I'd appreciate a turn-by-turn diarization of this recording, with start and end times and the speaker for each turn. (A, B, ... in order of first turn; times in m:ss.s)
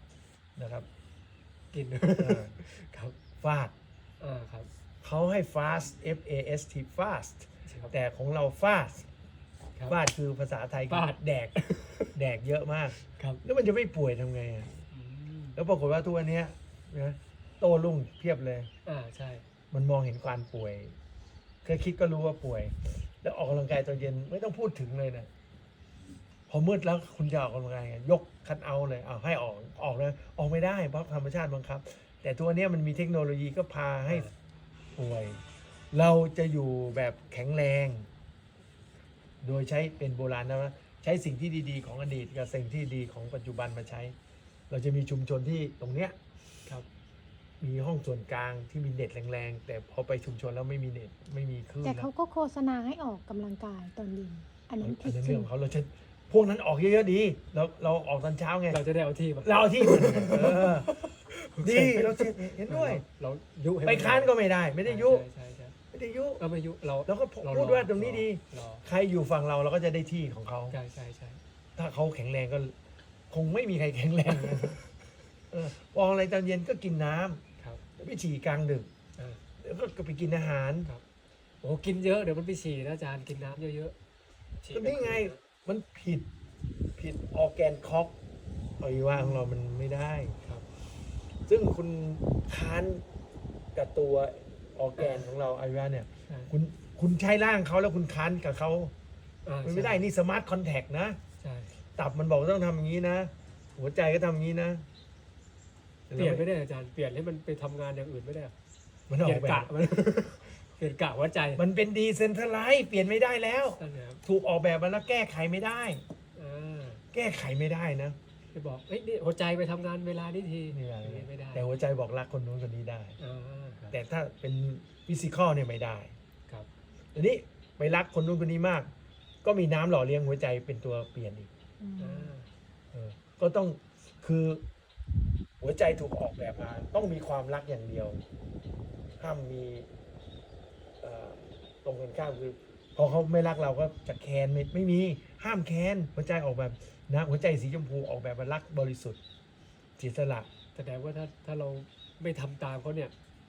0:00.6-0:00.9 A
0:01.7-0:03.2 B
0:02.2-0:02.6 A
0:03.4-0:03.7 A
0:04.2-0:04.7 B
0:05.0-0:09.1 A
0:07.6-0:07.9 B
0:09.9-0:11.5 A
0:10.9-0:12.1 B
0:12.1-0:14.7 A
0:13.0-0:13.4 B
0:14.9-0:15.6 B
0:15.6-0:18.7 A
0:18.8-0:19.4 B
0:19.7-0:20.9 A
0:21.6-0:25.3 A
0:26.5-0:34.3 A
0:34.1-0:34.3 B
0:34.9-0:38.1 A
0:39.4-0:44.1 A
0:44.7-0:46.2 A
0:47.6-0:52.1 A
0:51.8-0:55.5 C
0:54.8-0:58.8 A
0:58.7-1:05.8 B
0:59.4-1:00.9 A
1:01.6-1:03.0 A
1:03.8-1:05.2 A
1:05.9-1:06.4 A
1:06.4-1:08.8 B
1:07.1-1:10.8 A
1:10.7-1:11.4 B
1:11.8-1:12.7 A
1:13.3-1:14.8 A
1:14.4-1:14.7 B
1:15.5-1:17.4 A
1:18.0-1:18.9 A
1:19.2-1:19.4 B
1:19.6-1:20.9 A
1:21.6-1:23.9 B
1:24.6-1:25.4 B
1:24.7-1:26.3 A
1:27.0-1:28.1 A
1:28.8-1:30.4 A
1:29.1-1:29.5 B
1:31.4-1:33.0 A
1:33.7-1:38.9 A
1:35.0-1:35.3 B
1:39.4-1:40.1 B
1:39.6-1:41.2 A
1:41.4-1:41.7 B
1:42.0-1:44.8 A
1:46.1-1:46.4 A
1:46.1-1:48.5 B
1:49.1-1:49.7 A
1:49.2-1:51.6 B
1:51.6-1:56.0 A
1:53.8-1:54.2 B
1:56.3-1:57.0 B
1:57.1-1:58.2 A
1:58.5-2:01.8 B
2:00.7-2:03.2 A
2:03.2-2:03.9 B
2:03.9-2:06.1 A
2:07.1-2:08.9 A
2:09.4-2:11.5 A
2:11.8-2:12.3 C
2:12.0-2:12.5 B
2:12.9-2:14.6 A
2:15.6-2:18.2 A
2:19.2-2:19.9 A
2:21.0-2:29.2 A
2:30.0-2:30.5 A
2:30.7-2:33.1 B